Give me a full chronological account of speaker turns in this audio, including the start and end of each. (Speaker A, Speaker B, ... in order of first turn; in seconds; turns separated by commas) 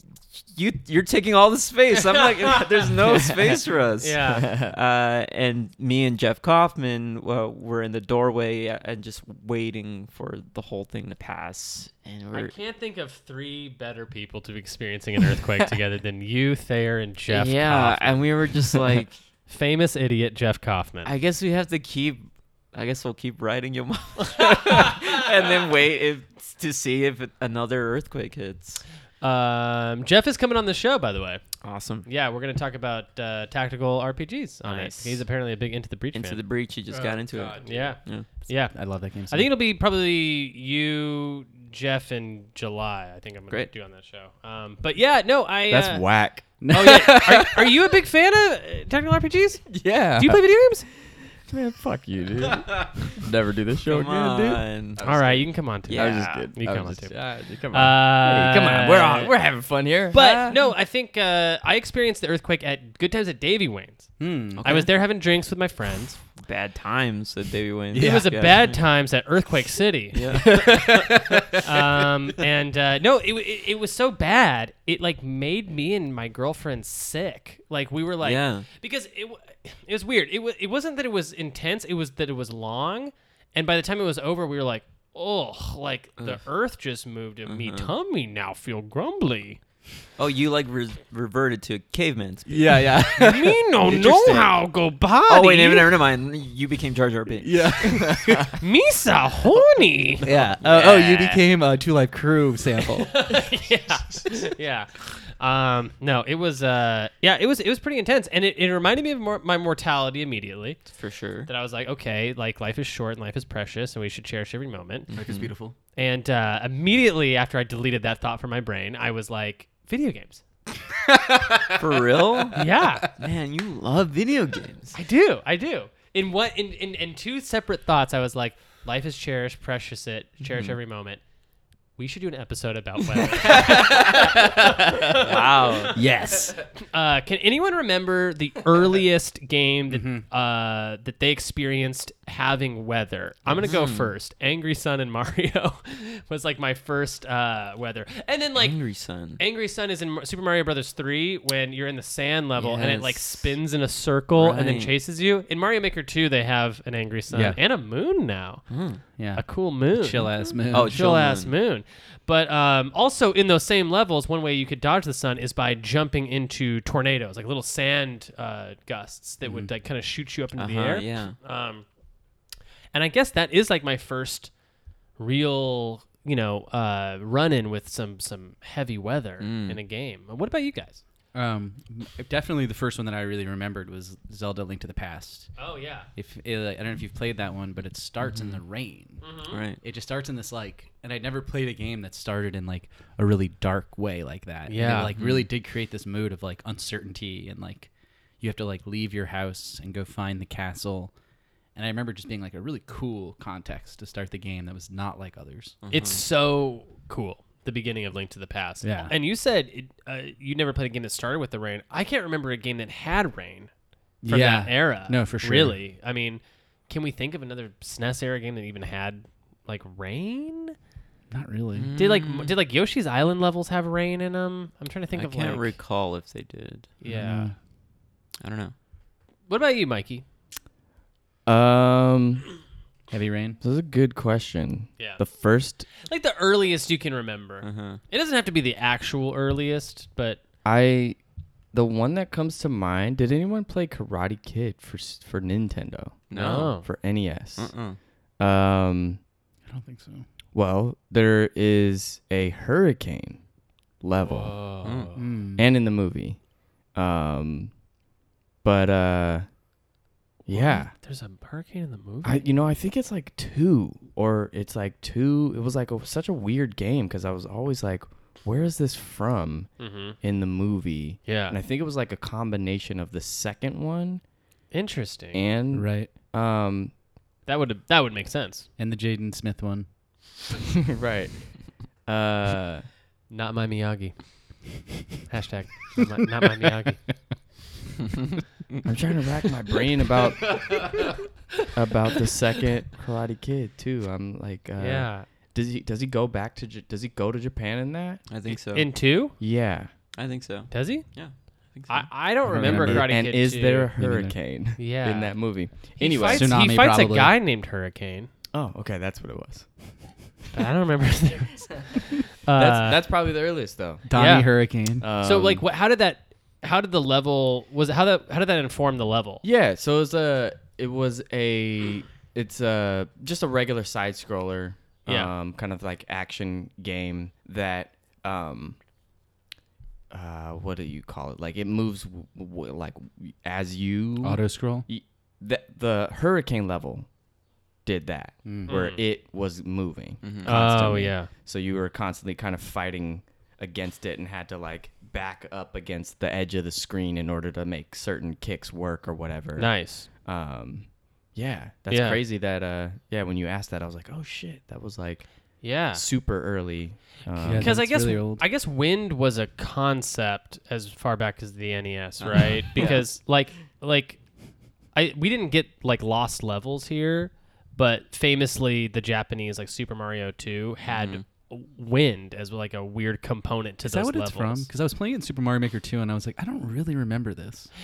Speaker A: 0.3-12.5, Speaker B: 2.1-2.9, Speaker B: 4.0-4.5, Speaker C: 4.3-4.7, Speaker B: 12.3-18.2, Speaker A: 17.3-19.1, Speaker B: 19.5-21.1, Speaker A: 21.1-28.8, Speaker B: 24.3-25.2, Speaker B: 29.2-31.4, Speaker A: 31.6-32.1, Speaker B: 32.0-36.4, Speaker A: 34.6-35.2, Speaker A: 36.1-38.3, Speaker B: 37.0-38.8, Speaker D: 37.4-37.6, Speaker D: 38.7-39.5, Speaker B: 39.3-46.1, Speaker C: 45.7-46.5, Speaker D: 46.6-47.7, Speaker B: 46.7-50.9, Speaker C: 49.7-50.4, Speaker C: 51.4-60.6, Speaker A: 53.9-55.0, Speaker B: 55.0-57.2, Speaker A: 55.9-56.5, Speaker B: 57.7-59.3, Speaker B: 60.1-66.2, Speaker D: 64.2-64.7, Speaker A: 64.5-64.9, Speaker A: 66.4-68.8, Speaker D: 67.9-68.6, Speaker B: 68.0-89.6, Speaker A: 70.1-70.7, Speaker D: 70.4-71.7, Speaker A: 78.2-78.7, Speaker A: 87.5-87.9, Speaker A: 90.2-93.0, Speaker D: 92.5-94.0, Speaker B: 93.2-96.0, Speaker A: 95.3-98.0, Speaker D: 97.4-98.6, Speaker B: 98.6-100.2, Speaker D: 100.2-103.5, Speaker A: 100.3-101.4, Speaker B: 103.1-110.8, Speaker A: 110.9-111.5, Speaker B: 111.5-115.1, Speaker A: 115.1-115.5, Speaker D: 115.1-115.8, Speaker B: 116.0-120.4, Speaker D: 121.0-122.9, Speaker A: 121.8-122.6, Speaker B: 122.5-123.1, Speaker A: 123.2-125.0, Speaker B: 124.9-131.2, Speaker A: 130.4-130.8, Speaker B: 132.0-135.9, Speaker D: 133.4-135.2, Speaker A: 135.2-136.0, Speaker D: 135.9-136.6, Speaker B: 136.8-148.8, Speaker D: 139.9-140.2, Speaker A: 143.6-144.1, Speaker A: 148.6-149.4, Speaker B: 149.4-171.8, Speaker A: 152.6-153.6, Speaker A: 154.3-154.9, Speaker D: 157.3-157.6, Speaker A: 158.7-159.0, Speaker D: 159.2-161.0, Speaker A: 160.7-161.5, Speaker D: 169.4-169.7, Speaker A: 170.6-171.4, Speaker B: 172.9-174.5, Speaker B: 175.2-181.0, Speaker A: 179.4-179.8, Speaker D: 181.3-185.6, Speaker B: 185.6-186.1, Speaker D: 186.2-189.2, Speaker A: 188.2-188.6, Speaker B: 189.2-189.6, Speaker A: 189.5-189.8, Speaker D: 189.8-201.1, Speaker B: 194.7-195.1, Speaker A: 195.2-195.5, Speaker D: 201.8-205.8, Speaker A: 205.8-206.2, Speaker B: 205.9-213.7, Speaker D: 208.8-209.1, Speaker D: 214.2-215.8, Speaker B: 214.3-220.8, Speaker D: 221.3-221.9, Speaker A: 221.8-222.5, Speaker B: 222.0-225.8, Speaker A: 225.1-226.9, Speaker B: 227.0-227.5, Speaker D: 227.1-227.5, Speaker A: 228.4-228.7, Speaker B: 229.5-230.2, Speaker C: 231.5-232.5, Speaker D: 233.1-233.6, Speaker C: 233.6-235.9, Speaker B: 236.0-240.4, Speaker A: 237.6-238.0, Speaker C: 240.6-241.2, Speaker C: 241.7-247.8, Speaker A: 246.3-246.8, Speaker B: 246.3-246.9, Speaker A: 247.6-248.0, Speaker C: 248.4-249.2, Speaker D: 249.7-250.3, Speaker C: 250.5-253.4, Speaker C: 254.0-254.6, Speaker B: 254.2-255.2, Speaker A: 254.8-255.1, Speaker D: 255.2-255.7, Speaker C: 255.6-256.4, Speaker C: 256.9-257.7, Speaker C: 258.6-259.5, Speaker C: 260.4-260.9, Speaker B: 260.5-262.5, Speaker C: 262.2-274.2, Speaker B: 269.8-270.2, Speaker B: 271.3-271.6, Speaker B: 274.7-275.4, Speaker C: 275.3-276.9, Speaker D: 275.7-276.1, Speaker B: 277.5-278.7, Speaker D: 278.8-279.9, Speaker C: 280.9-282.9, Speaker B: 283.3-284.6, Speaker B: 285.3-287.0, Speaker C: 288.8-291.1, Speaker C: 291.7-298.2, Speaker B: 294.8-295.3, Speaker A: 298.3-298.9, Speaker B: 298.5-299.4, Speaker C: 299.4-299.9, Speaker A: 300.1-302.1, Speaker B: 300.7-301.1, Speaker B: 301.9-303.9, Speaker D: 302.5-303.1, Speaker C: 302.5-306.6, Speaker D: 304.0-304.4, Speaker B: 304.8-308.3, Speaker D: 306.3-307.3, Speaker C: 308.5-309.7, Speaker B: 310.5-313.0, Speaker C: 312.5-314.1, Speaker D: 314.1-315.1, Speaker B: 314.1-314.7, Speaker C: 315.0-315.6, Speaker B: 315.2-319.4, Speaker C: 319.4-328.8, Speaker B: 325.1-325.3, Speaker C: 330.1-337.1, Speaker D: 334.2-334.9, Speaker C: 337.9-355.3, Speaker D: 338.4-338.7, Speaker B: 338.7-339.0, Speaker A: 340.2-340.5, Speaker B: 340.4-341.3, Speaker B: 349.6-350.1, Speaker B: 351.9-352.2, Speaker B: 355.6-356.1, Speaker C: 355.9-357.8, Speaker D: 357.4-358.4, Speaker B: 357.5-364.2, Speaker A: 362.2-363.0, Speaker B: 364.9-374.7, Speaker A: 370.9-371.2, Speaker D: 373.8-377.7